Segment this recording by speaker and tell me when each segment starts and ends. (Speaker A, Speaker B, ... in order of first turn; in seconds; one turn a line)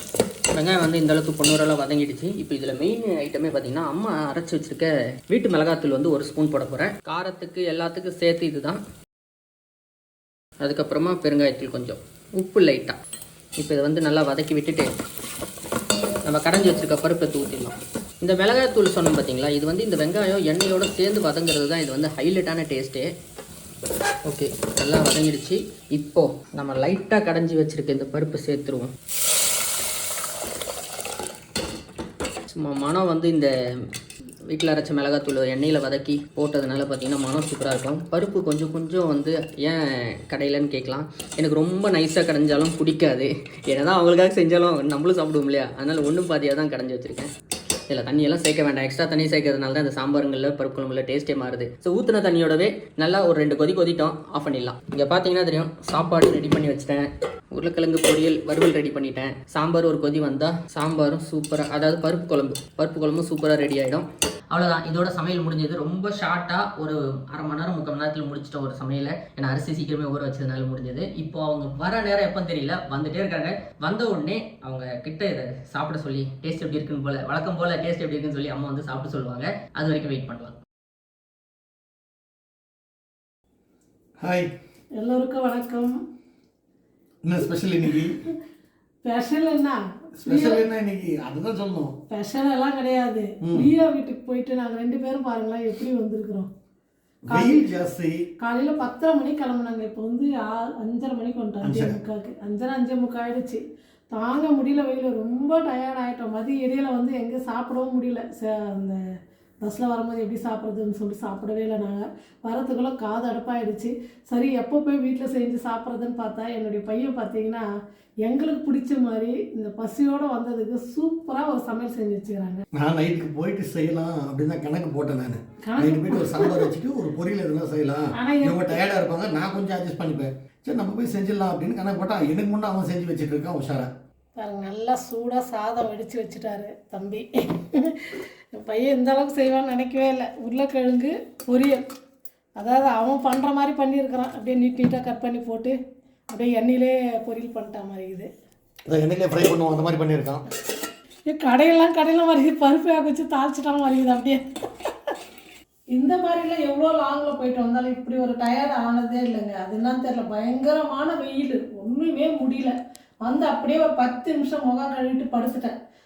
Speaker A: 0.5-8.8
Speaker A: 10.6-13.0
Speaker A: 13.6-14.9
Speaker A: 16.2-23.1
Speaker A: 24.2-28.9
Speaker A: 32.5-33.5
Speaker A: 34.5-47.3
Speaker A: 47.9-80.6
Speaker B: 84.2-84.5
Speaker C: 85.0-85.9
Speaker B: 87.2-88.2
Speaker C: 89.0-90.6
Speaker B: 90.2-92.0
Speaker C: 92.1-96.5
Speaker B: 93.4-93.7
Speaker B: 97.3-98.2
Speaker C: 97.3-97.6
Speaker C: 98.4-103.6
Speaker B: 101.6-102.0
Speaker C: 104.1-109.0
Speaker C: 109.6-117.6
Speaker C: 118.2-122.6
Speaker B: 122.8-133.9
Speaker C: 125.6-126.7
Speaker C: 128.1-128.8
Speaker C: 134.4-141.8
Speaker C: 142.6-145.8
Speaker C: 146.3-148.3
Speaker B: 148.9-150.4
Speaker C: 151.3-154.4
Speaker C: 155.9-162.7
Speaker C: 163.2-165.7